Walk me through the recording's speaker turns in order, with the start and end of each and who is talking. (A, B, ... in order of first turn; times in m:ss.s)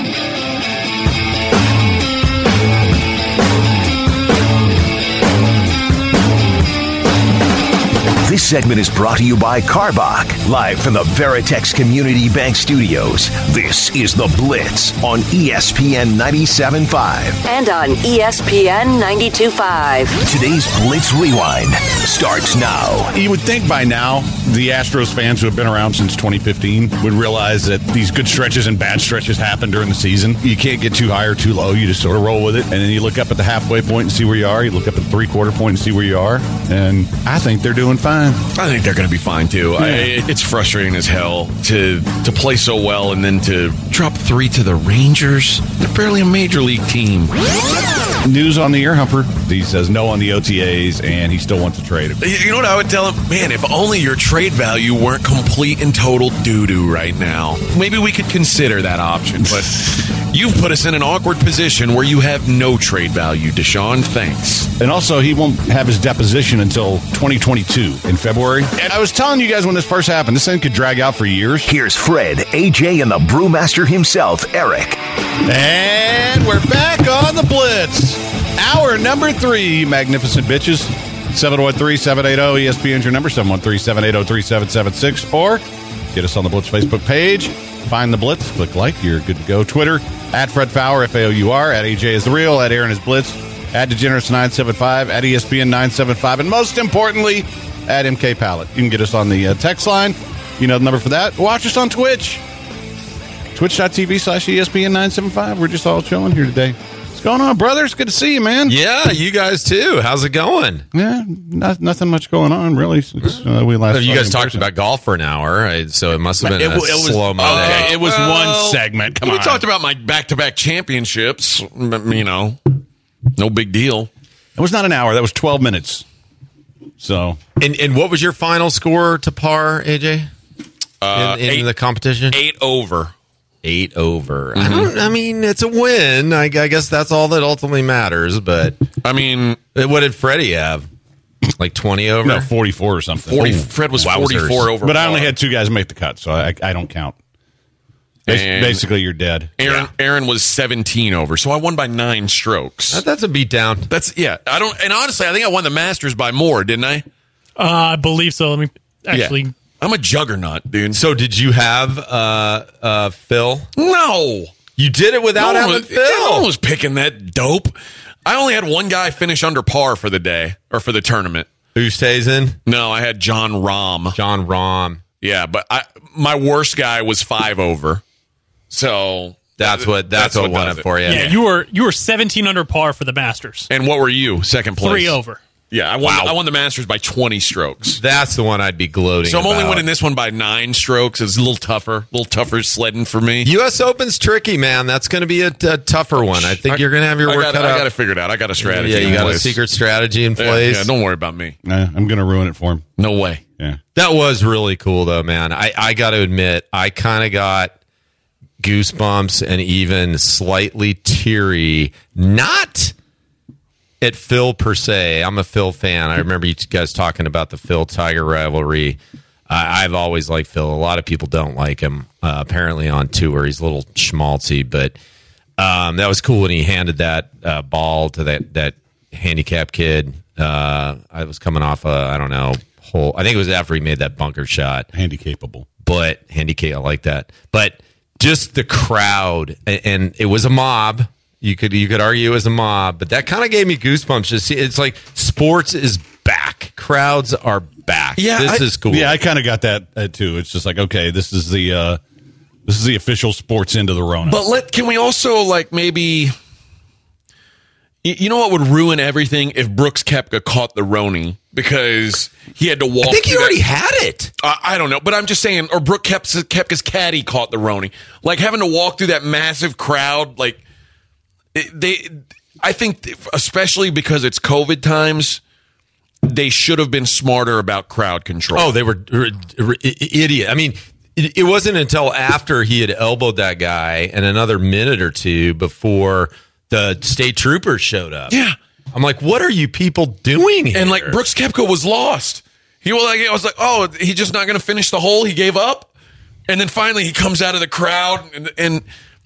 0:08.2-0:17.4 A
0:17.4-0:20.2 B
0:20.2-0:23.1 A
0:23.1-0:38.4 C
0:38.5-0:47.4 D
0:39.8-0:40.2 C
0:48.2-0:52.2 C
0:52.2-1:04.7 D
1:04.8-1:11.7 C
1:11.7-1:15.0 A
1:15.4-1:42.4 C
1:43.6-1:48.8 C
1:48.7-1:50.9 E
1:50.9-1:54.7 C
1:53.9-1:58.0 E
1:56.4-1:59.6 C
1:57.4-2:02.7 D
2:03.4-2:04.1 D
2:04.6-2:06.0 C
2:07.0-2:07.4 C
2:07.6-2:10.3 E
2:11.0-2:11.7 D
2:11.1-2:12.4 E
2:12.3-2:13.1 D
2:13.6-2:18.8 E
2:14.6-2:14.9 D
2:19.0-2:19.6 D
2:19.8-2:20.9 E
2:21.6-2:22.5 E
2:22.2-2:23.7 C
2:23.3-2:25.4 D
2:23.4-2:24.7 E
2:24.8-2:27.2 C
2:28.3-2:28.9 D
2:28.3-2:29.6 C
2:29.6-2:33.0 D
2:32.9-2:33.9 E
2:33.9-2:37.1 D
2:37.6-2:39.5 F
2:39.1-2:41.0 D
2:40.9-2:43.7 E
2:43.8-2:44.5 D
2:44.8-2:46.5 E
2:45.4-2:51.5 D
2:51.8-2:52.6 E
2:52.6-2:54.2 D
2:54.2-2:55.0 E
2:55.2-2:58.0 D
2:58.7-3:01.3 D
2:59.6-3:01.4 E
3:01.0-3:03.7 F
3:03.7-3:05.2 D
3:04.8-3:05.4 F
3:05.7-3:08.0 D
3:06.0-3:06.4 E
3:08.0-3:09.9 E
3:09.2-3:13.5 D
3:13.4-3:17.9 E
3:16.2-3:19.6 D
3:18.6-3:20.9 E
3:19.1-3:19.3 C
3:20.4-3:21.6 D
3:21.6-3:22.9 C
3:23.0-3:23.4 D
3:23.9-3:27.7 E
3:28.6-3:32.9 E
3:34.0-3:44.9 E
3:45.6-3:54.9 E
3:54.9-3:55.7 C
3:55.8-4:09.2 E
4:08.2-4:08.6 D
4:08.9-4:12.0 C
4:12.6-4:14.4 C
4:14.3-4:16.3 D
4:18.0-4:23.6 D
4:23.0-4:24.3 E
4:24.4-4:30.6 D
4:31.5-4:35.4 D
4:36.2-4:38.7 D
4:38.5-4:48.3 E
4:48.3-4:48.6 D
4:48.9-4:51.2 E
4:50.7-4:55.9 D
4:56.5-4:58.8 D